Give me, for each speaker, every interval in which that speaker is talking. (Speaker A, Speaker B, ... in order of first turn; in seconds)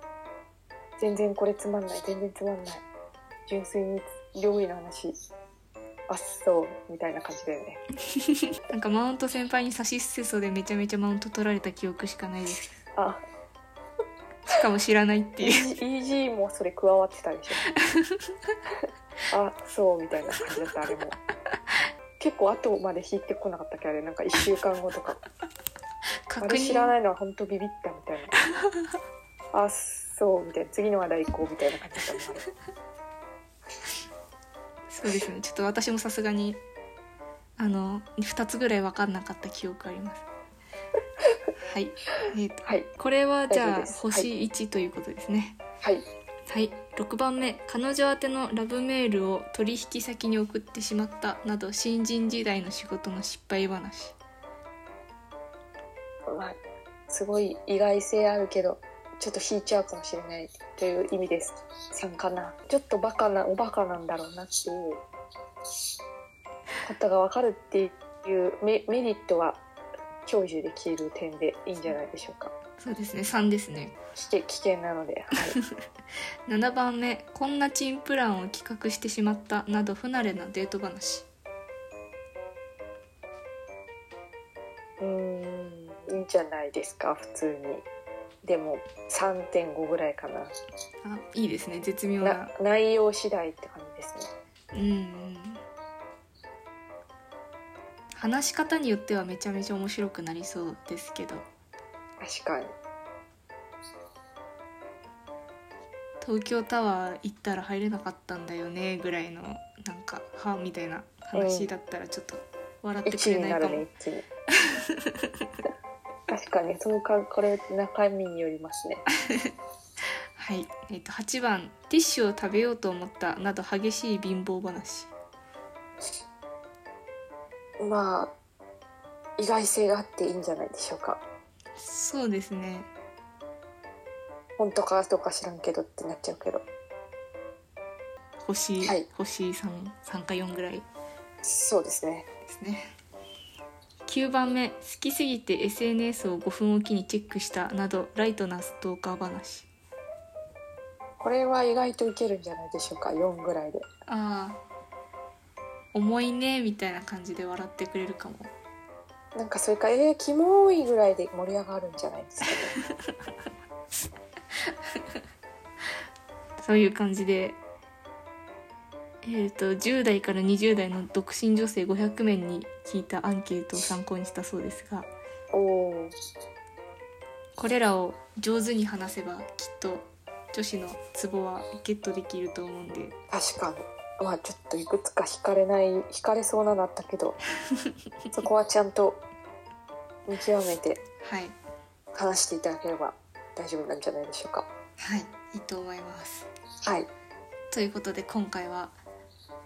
Speaker A: 1.0-2.8, 3.5-5.2, 6.1-7.8, 15.4-17.6, 19.3-21.1, 22.2-25.2, 26.4-28.3, 29.5-32.4, 43.5-44.3, 56.3-56.6, 57.1-65.0, 66.8-69.6, 70.3-72.5, 74.2-75.6, 85.0-87.8, 88.4-90.5, 92.2-94.3, 102.2-102.7, 111.3-111.7, 113.1-114.2, 116.3-119.0, 127.8-128.3, 129.4-131.2, 134.6-136.6, 141.4-142.3, 151.2-153.9, 159.3-162.8, 175.5-176.2, 183.3-187.4, 188.3-189.2, 190.3-191.0, 192.1-194.7
Speaker B: 8.3-12.7, 14.5-15.8, 17.7-18.5, 26.3-26.9, 34.9-36.6, 37.6-40.3, 41.7-45.6, 46.5-54.2, 72.8-74.0, 76.5-81.3, 91.0-92.5, 94.7-95.6, 98.1-101.5, 106.2-113.9, 114.6-115.5, 120.4-125.1, 131.8-132.9, 138.4-140.9, 142.5-142.9, 144.1-149.7, 154.1-154.6, 155.9-158.5, 166.6-167.6, 169.2-175.1, 177.6-183.2, 191.2-191.6, 195.0-196.5, 197.7-199.0